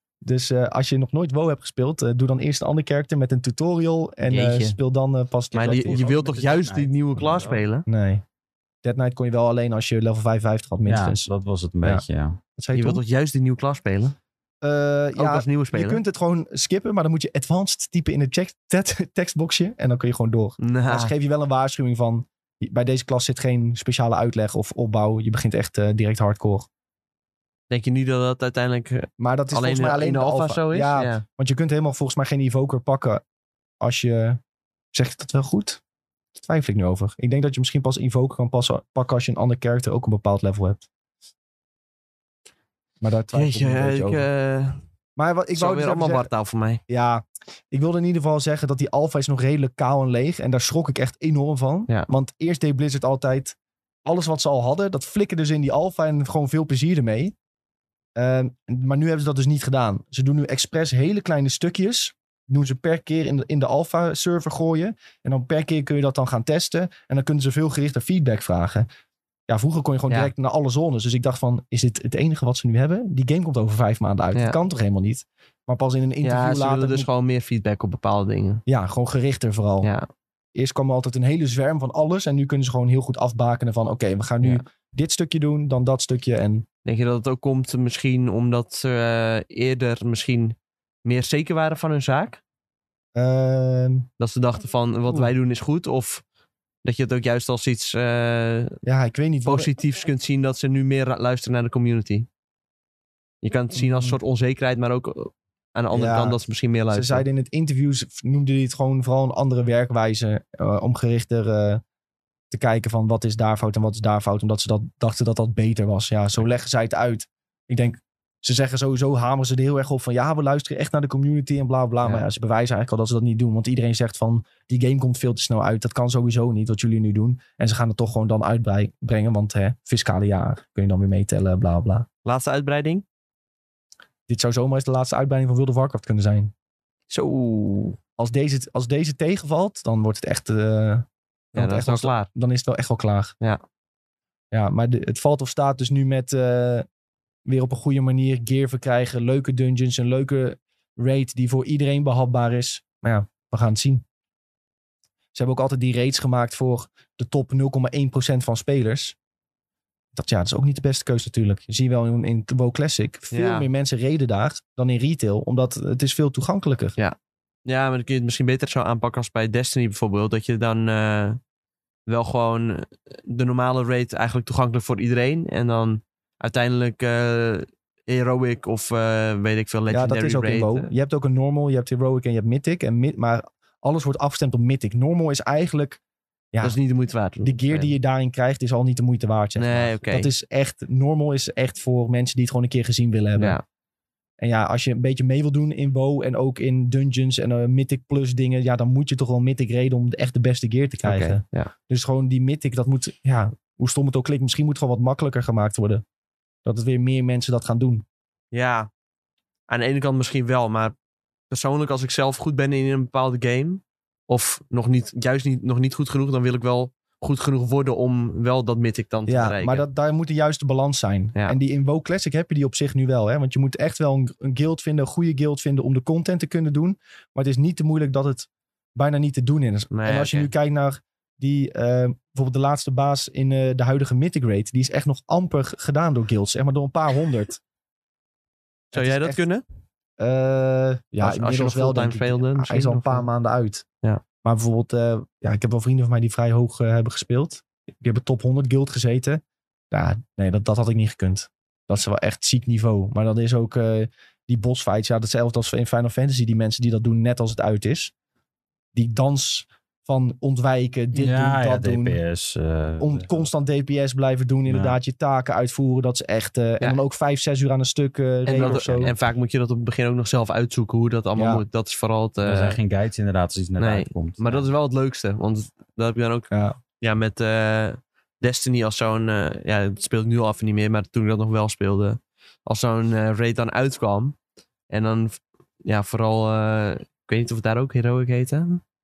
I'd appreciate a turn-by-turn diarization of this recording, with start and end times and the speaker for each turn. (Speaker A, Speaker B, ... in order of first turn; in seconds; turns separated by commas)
Speaker A: 0.2-6.1, Speaker B: 4.3-4.8, Speaker B: 5.5-7.9, Speaker C: 5.7-7.6, Speaker A: 7.9-8.2, Speaker A: 8.8-11.3, Speaker C: 10.9-12.4, Speaker A: 12.6-13.0, Speaker B: 12.7-14.2, Speaker A: 14.6-26.7, Speaker B: 15.2-16.0, Speaker B: 20.6-21.1, Speaker B: 27.7-31.2, Speaker A: 29.2-33.2, Speaker A: 33.8-34.4, Speaker A: 34.9-35.8, Speaker A: 36.4-40.8, Speaker A: 43.0-44.3, Speaker B: 43.3-44.8, Speaker A: 45.2-46.3, Speaker B: 45.5-46.8, Speaker A: 46.9-57.3, Speaker A: 58.2-68.9, Speaker A: 69.5-77.1, Speaker B: 76.2-78.6, Speaker A: 78.7-79.9, Speaker B: 79.8-80.1, Speaker A: 80.5-86.7, Speaker B: 86.8-92.4, Speaker A: 93.2-94.1, Speaker B: 94.2-96.2, Speaker B: 96.8-98.8, Speaker A: 98.8-99.7, Speaker B: 99.5-102.3, Speaker B: 103.4-107.2, Speaker A: 103.8-104.2, Speaker A: 105.9-106.4, Speaker A: 106.9-111.8, Speaker A: 112.5-132.1, Speaker B: 132.2-133.0, Speaker A: 134.3-136.5, Speaker B: 137.1-138.0, Speaker A: 138.2-143.3, Speaker B: 141.5-142.3, Speaker A: 144.5-146.9, Speaker A: 147.5-154.0, Speaker A: 155.3-159.2, Speaker A: 160.2-167.0, Speaker B: 163.3-163.7, Speaker B: 167.0-171.4, Speaker B: 172.1-180.9, Speaker A: 179.9-186.0, Speaker B: 186.6-187.9, Speaker A: 187.4-193.6, Speaker B: 189.6-190.3, Speaker B: 193.4-193.6, Speaker A: 194.4-206.0, Speaker B: 201.0-201.7, Speaker A: 206.7-208.1, Speaker B: 208.5-208.9, Speaker B: 209.7-210.9, Speaker B: 211.5-219.8, Speaker A: 219.3-237.6, Speaker B: 229.9-230.5, Speaker A: 238.9-239.4, Speaker B: 238.9-239.6, Speaker A: 240.2-243.8, Speaker B: 241.2-243.3, Speaker A: 244.4-258.1, Speaker A: 258.9-262.2, Speaker C: 261.1-263.5, Speaker A: 263.0-269.1, Speaker C: 264.7-265.0, Speaker B: 268.5-272.8, Speaker C: 268.5-268.9, Speaker A: 271.4-271.6, Speaker C: 272.4-274.7, Speaker B: 273.8-284.4, Speaker A: 276.5-276.8, Speaker B: 284.9-288.8